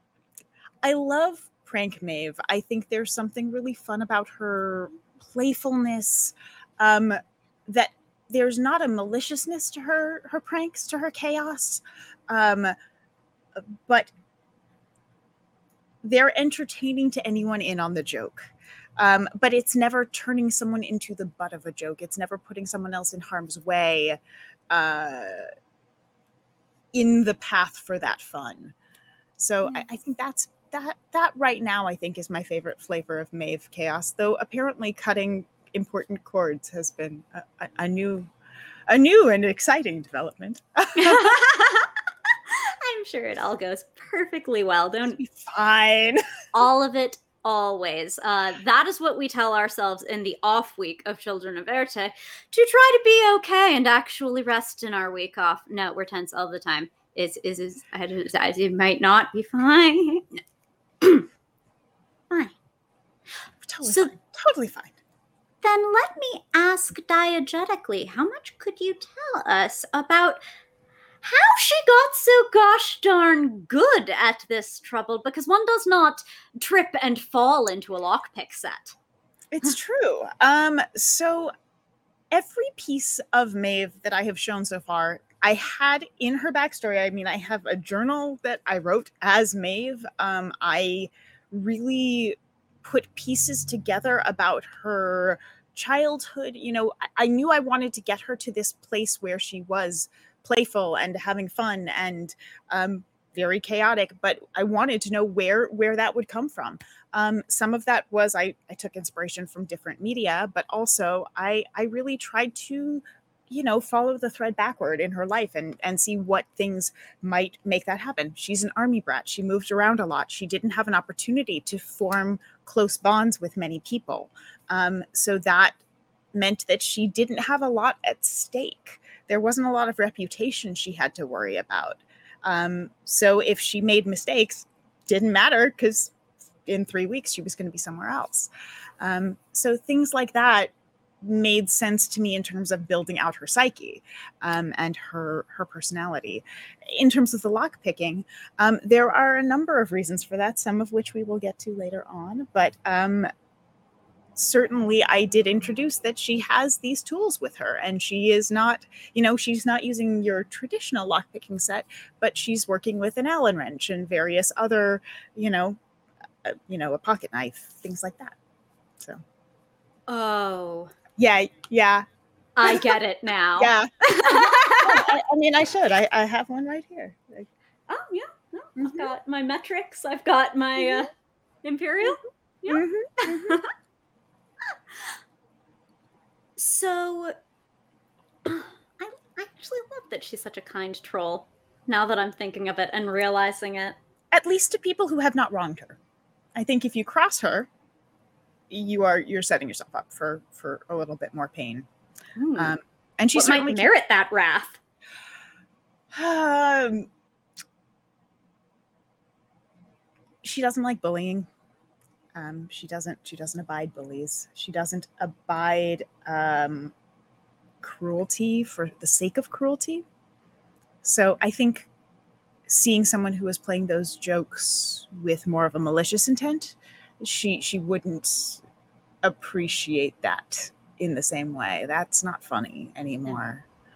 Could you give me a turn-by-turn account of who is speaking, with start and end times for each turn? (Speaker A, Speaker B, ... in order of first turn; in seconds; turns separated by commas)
Speaker A: 0.8-12.7, Speaker A: 13.5-14.1, Speaker A: 16.0-25.5, Speaker A: 26.9-28.7, Speaker A: 29.4-38.3, Speaker A: 38.9-41.4, Speaker B: 41.0-41.9, Speaker B: 42.5-45.2, Speaker A: 45.2-46.2, Speaker B: 46.5-60.3, Speaker B: 61.0-61.3, Speaker A: 63.6-65.0, Speaker B: 63.8-64.1, Speaker B: 65.6-70.4, Speaker B: 71.2-78.9, Speaker A: 79.5-81.5, Speaker A: 82.3-125.8, Speaker A: 126.3-136.1, Speaker A: 136.7-153.3, Speaker A: 154.3-165.8, Speaker A: 166.4-168.3, Speaker B: 170.1-170.9, Speaker A: 171.2-172.1, Speaker B: 172.6-175.1, Speaker A: 172.6-172.9, Speaker A: 173.6-177.5, Speaker B: 177.9-181.1, Speaker A: 178.8-179.1, Speaker A: 180.8-181.1, Speaker B: 181.6-183.7, Speaker A: 182.7-183.5, Speaker B: 186.6-187.3, Speaker B: 188.4-193.9, Speaker A: 194.3-196.0, Speaker A: 196.5-197.7, Speaker A: 198.7-201.9, Speaker B: 202.3-202.8, Speaker A: 202.6-203.9, Speaker B: 203.3-204.8, Speaker A: 206.1-207.1, Speaker A: 210.4-211.5, Speaker A: 212.3-216.9, Speaker A: 217.8-220.1, Speaker A: 221.0-221.9, Speaker A: 222.7-228.6, Speaker A: 229.2-233.7